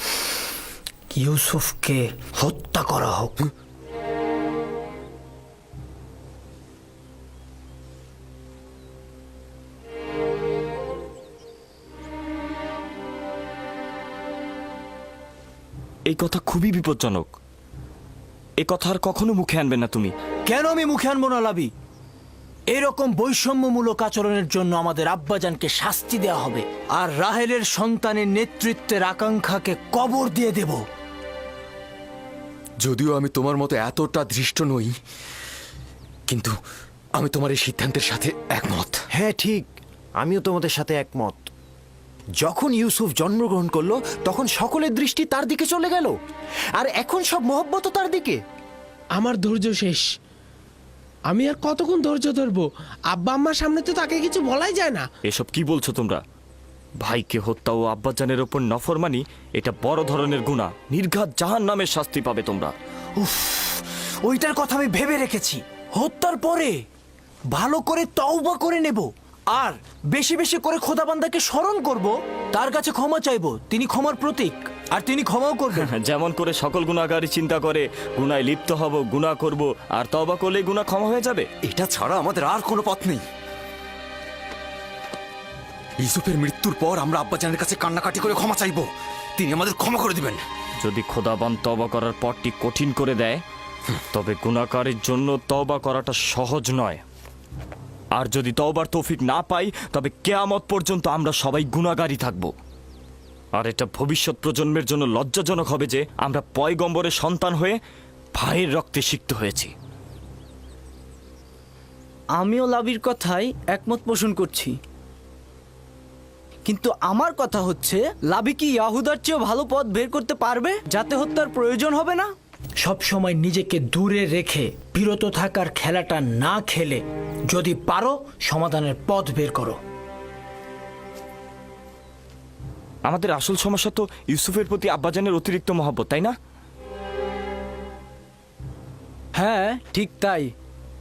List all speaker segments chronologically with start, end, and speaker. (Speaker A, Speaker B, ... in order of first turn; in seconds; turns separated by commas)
Speaker A: 1.1-3.5, Speaker B: 16.1-17.3, Speaker B: 18.6-20.1, Speaker A: 20.5-21.7, Speaker A: 22.7-30.8, Speaker C: 32.8-35.0, Speaker C: 36.3-36.5, Speaker C: 37.2-39.0, Speaker D: 39.1-39.6, Speaker D: 40.2-41.5, Speaker D: 42.4-46.1, Speaker D: 46.8-48.4, Speaker E: 49.1-50.0, Speaker E: 51.3-55.0, Speaker B: 55.3-56.2, Speaker B: 57.0-62.7, Speaker A: 63.2-66.8, Speaker A: 67.5-75.9, Speaker B: 75.8-81.5, Speaker C: 81.6-83.2, Speaker C: 86.0-90.4, Speaker B: 90.8-93.4, Speaker B: 94.1-97.0, Speaker B: 98.2-102.5, Speaker B: 103.5-107.8, Speaker B: 108.4-109.7, Speaker F: 112.4-114.8, Speaker F: 116.7-122.3, Speaker A: 122.8-129.8, Speaker B: 133.1-136.3, Speaker F: 139.4-140.5